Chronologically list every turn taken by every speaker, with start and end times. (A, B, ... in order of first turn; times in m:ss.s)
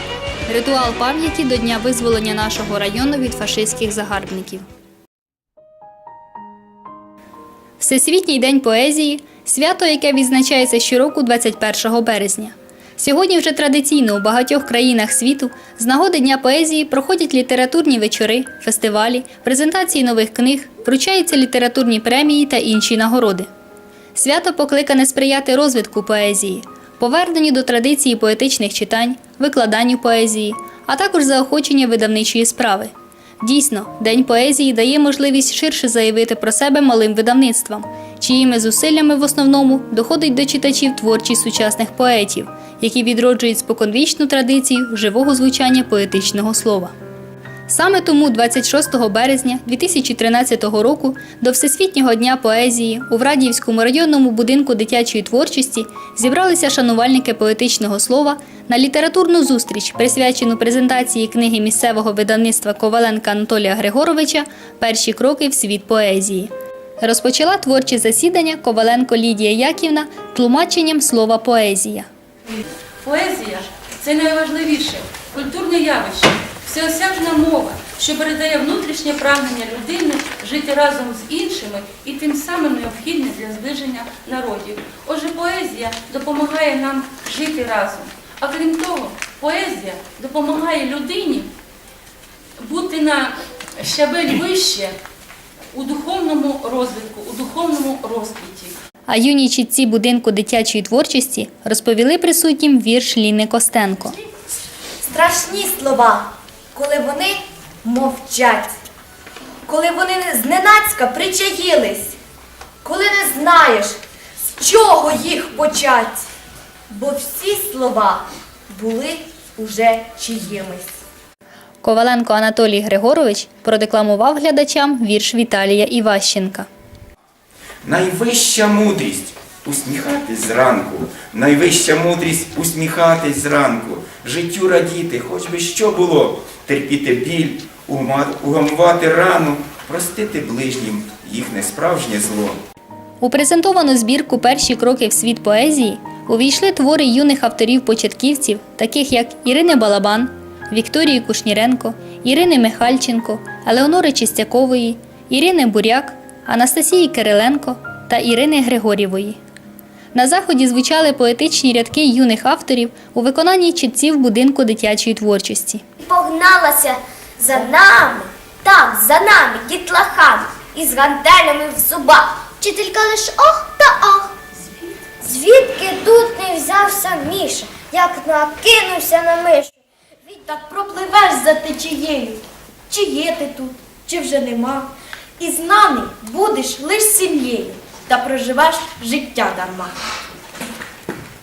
0:00.5-0:04.6 A
0:07.8-0:23.5 A
0:24.1-0:46.9 A
0:47.7-1:12.1 A
1:13.0-1:31.5 B
1:32.6-1:34.9 B
1:35.7-1:38.8 B
1:39.1-1:44.2 A
1:45.0-1:48.7 C
1:49.6-1:52.2 C
1:52.8-1:54.0 C
1:54.6-1:56.2 C
1:56.9-2:01.0 C
2:01.8-2:06.7 A
2:07.8-2:22.6 D
2:23.2-2:39.4 A
2:40.1-2:45.8 A
2:46.0-2:54.3 E
2:55.2-2:59.7 E
3:00.3-3:09.9 C